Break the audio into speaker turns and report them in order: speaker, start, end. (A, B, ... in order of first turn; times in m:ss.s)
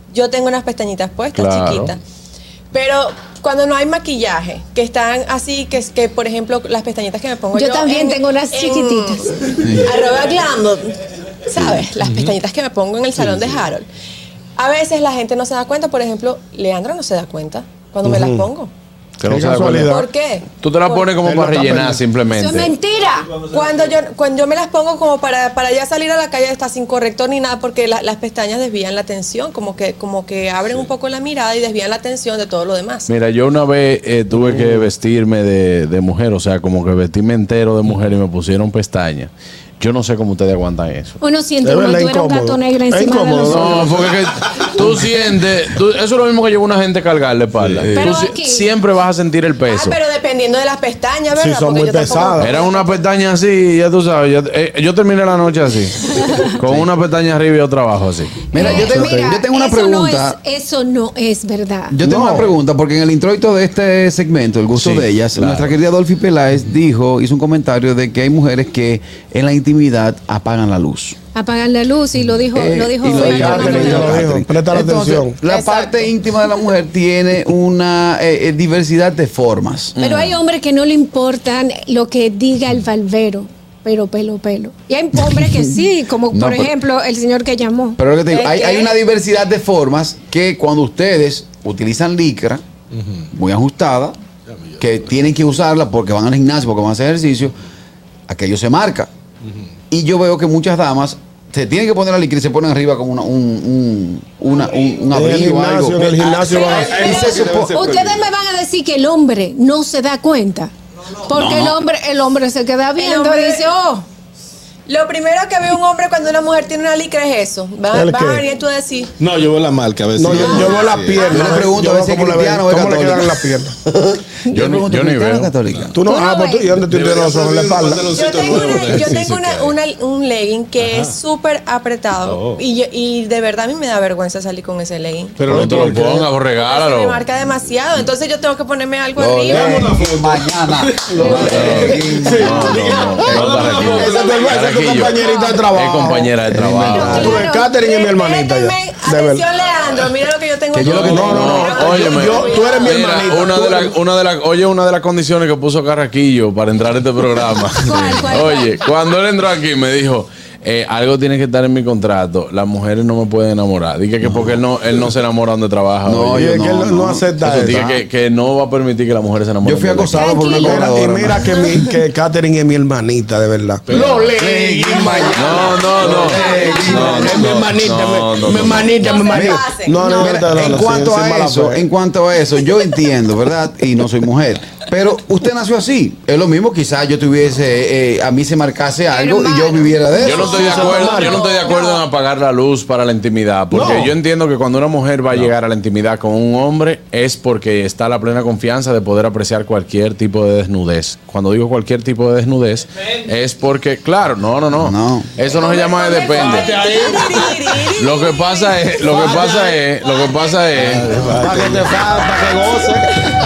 0:00.1-0:02.0 A
0:01.4-0:01.9 B
0:02.7-0:13.9 A
0:07.5-0:09.3 C
0:09.6-0:10.0 D
0:12.0-0:12.4 E
0:13.2-0:13.6 E
0:14.6-0:18.7 A
0:18.0-0:18.5 F
0:19.2-0:19.9 B
0:19.2-0:20.1 F
0:19.8-0:21.1 A
0:20.6-0:22.7 B
0:21.2-0:22.0 F
0:22.3-0:23.3 C
0:23.4-0:23.8 E
0:23.5-0:33.1 A
0:33.1-0:41.2 B
0:34.4-0:34.8 F
0:41.2-0:43.9 C
0:41.6-0:43.9 F
0:43.5-0:50.0 B
0:47.6-0:48.0 E
0:47.9-0:48.7 C
0:49.7-0:53.0 A
0:51.4-0:52.6 F
0:52.4-0:58.5 B
0:58.5-1:00.4 D
0:58.6-1:02.0 C
1:01.9-1:11.2 D
1:02.0-1:02.5 F
1:04.8-1:05.7 B
1:11.4-1:14.2 C
1:12.5-1:20.0 D
1:13.1-1:15.4 F
1:15.5-1:16.0 A
1:20.0-1:20.4 B
1:20.0-1:28.0 C
1:25.3-1:26.7 D
1:28.0-1:32.6 D
1:28.3-1:29.0 A
1:32.9-1:33.3 E
1:33.3-1:34.2 D
1:34.5-1:35.0 E
1:34.8-1:37.6 D
1:38.3-1:39.1 D
1:39.9-1:47.8 D
1:45.1-1:47.0 F
1:46.2-1:48.3 E
1:47.0-1:50.7 C
1:51.2-1:54.0 C
1:51.3-1:51.8 D
1:53.0-1:53.7 A
1:54.9-1:59.1 A
1:57.9-1:58.4 F
1:59.2-2:01.4 E
2:00.2-2:03.8 F
2:00.3-2:00.7 D
2:00.5-2:01.5 A
2:01.3-2:03.4 D
2:04.5-2:05.9 D
2:04.5-2:05.5 B
2:05.7-2:05.9 E
2:05.9-2:08.2 F
2:06.0-2:06.8 C
2:06.9-2:09.8 E
2:08.1-2:15.5 A
2:10.8-2:11.2 E
2:12.2-2:12.6 E
2:15.4-2:16.3 F
2:15.5-2:17.2 B
2:16.5-2:19.9 A
2:19.2-2:23.6 D
2:19.5-2:24.8 E
2:21.1-2:29.5 F
2:21.4-2:25.2 B
2:23.8-2:24.6 A
2:25.1-2:25.6 C
2:25.7-2:27.4 B
2:26.5-2:27.4 D
2:26.8-2:27.9 C
2:27.8-2:33.2 A
2:30.7-2:31.5 D
2:30.8-2:31.1 E
2:31.0-2:46.6 B
2:31.1-2:33.9 F
2:37.8-2:38.7 C
2:44.2-2:44.6 D
2:46.0-2:48.0 D
2:46.3-2:47.9 F
2:47.4-2:50.3 B
2:49.6-2:51.5 D
2:50.2-2:51.0 C
2:50.4-3:01.8 F
2:53.9-2:54.4 E
2:54.4-2:57.6 D
2:55.4-2:58.9 B
2:58.9-3:00.4 A
2:59.3-3:10.8 D
3:09.2-3:10.0 C
3:10.2-3:12.0 A
3:10.2-3:26.8 B
3:10.4-3:11.5 F
3:13.7-3:14.2 F
3:24.8-3:25.3 D
3:25.4-3:29.0 A
3:26.4-3:27.5 F
3:27.9-3:31.1 B
3:29.2-3:29.5 E
3:30.8-3:32.0 E
3:31.2-3:33.2 F